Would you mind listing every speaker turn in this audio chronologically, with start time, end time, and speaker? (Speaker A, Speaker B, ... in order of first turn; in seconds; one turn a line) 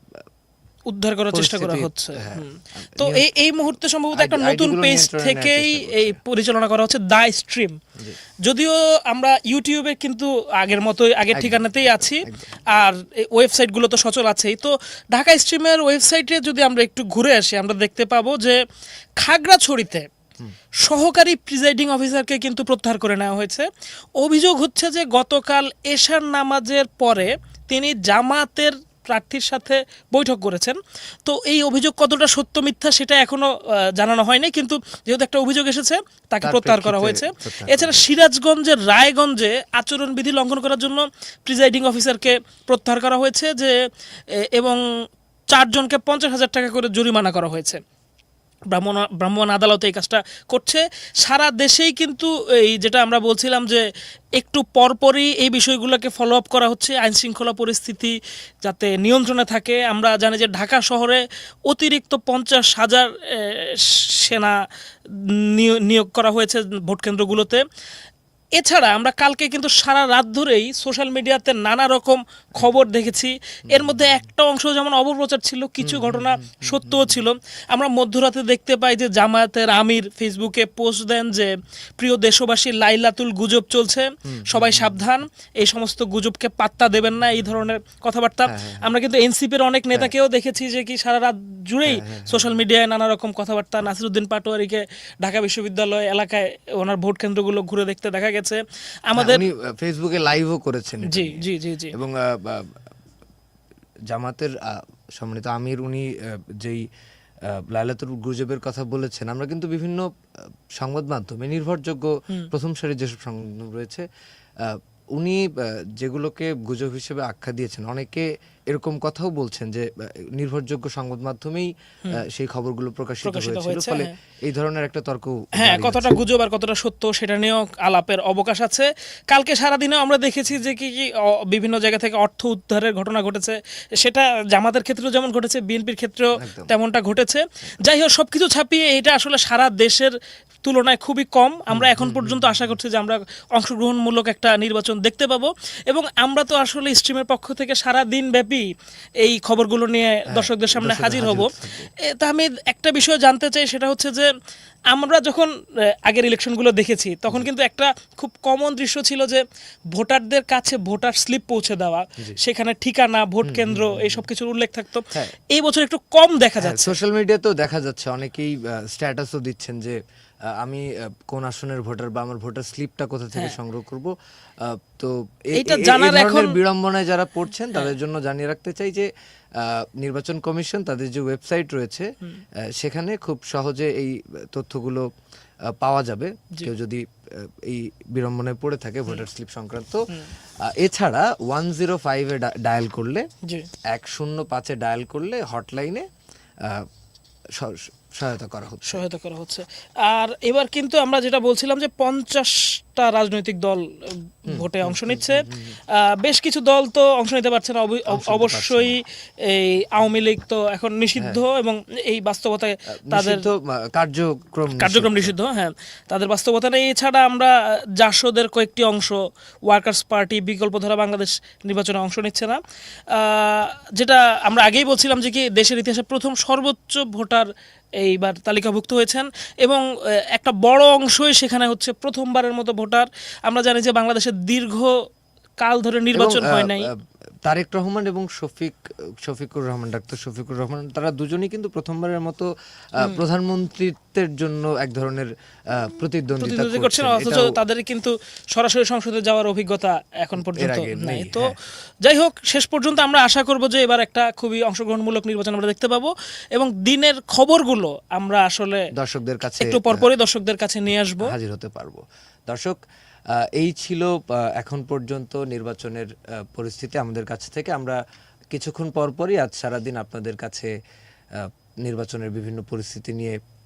Speaker A: 0.9-7.8
Speaker B: 1.3-3.3
Speaker B: 4.1-6.2
Speaker A: 8.4-18.6
Speaker B: 11.3-12.6
Speaker A: 19.2-20.1
Speaker A: 20.8-43.8
Speaker B: 36.4-38.1
Speaker A: 44.3-44.8
Speaker A: 45.5-47.8
Speaker A: 48.7-53.8
Speaker A: 54.4-67.6
Speaker A: 68.6-99.4
Speaker B: 73.7-74.2
Speaker B: 75.8-77.2
Speaker B: 84.3-85.1
Speaker B: 88.5-88.9
Speaker B: 91.9-92.6
Speaker B: 99.2-102.8
Speaker A: 101.1-101.9
Speaker B: 104.1-106.8
Speaker B: 107.5-110.1
Speaker B: 110.8-114.1
Speaker B: 114.6-126.2
Speaker A: 123.2-124.1
Speaker A: 125.5-140.1
Speaker B: 136.4-136.8
Speaker A: 140.7-148.7
Speaker B: 141.7-142.7
Speaker A: 149.2-154.3
Speaker B: 150.3-151.9
Speaker A: 154.9-155.5
Speaker A: 156.0-166.9
Speaker B: 163.4-164.3
Speaker B: 166.6-170.0
Speaker B: 170.6-174.1
Speaker B: 174.6-182.1
Speaker A: 175.5-176.6
Speaker B: 182.8-185.1
Speaker B: 185.7-190.0
Speaker B: 190.6-193.3
Speaker B: 193.9-196.1
Speaker B: 197.6-199.0
Speaker A: 198.9-213.5
Speaker B: 204.5-205.8
Speaker B: 208.1-209.0
Speaker B: 211.2-211.4
Speaker B: 213.1-215.3
Speaker A: 214.8-222.6
Speaker A: 223.1-234.9
Speaker A: 235.6-236.9
Speaker B: 236.1-236.9
Speaker B: 237.4-247.5
Speaker A: 246.4-251.5
Speaker B: 250.4-251.5
Speaker A: 252.0-258.9
Speaker B: 259.0-260.1
Speaker A: 259.6-261.3
Speaker B: 261.2-262.8
Speaker B: 263.4-268.0
Speaker B: 268.5-270.7
Speaker B: 271.4-273.4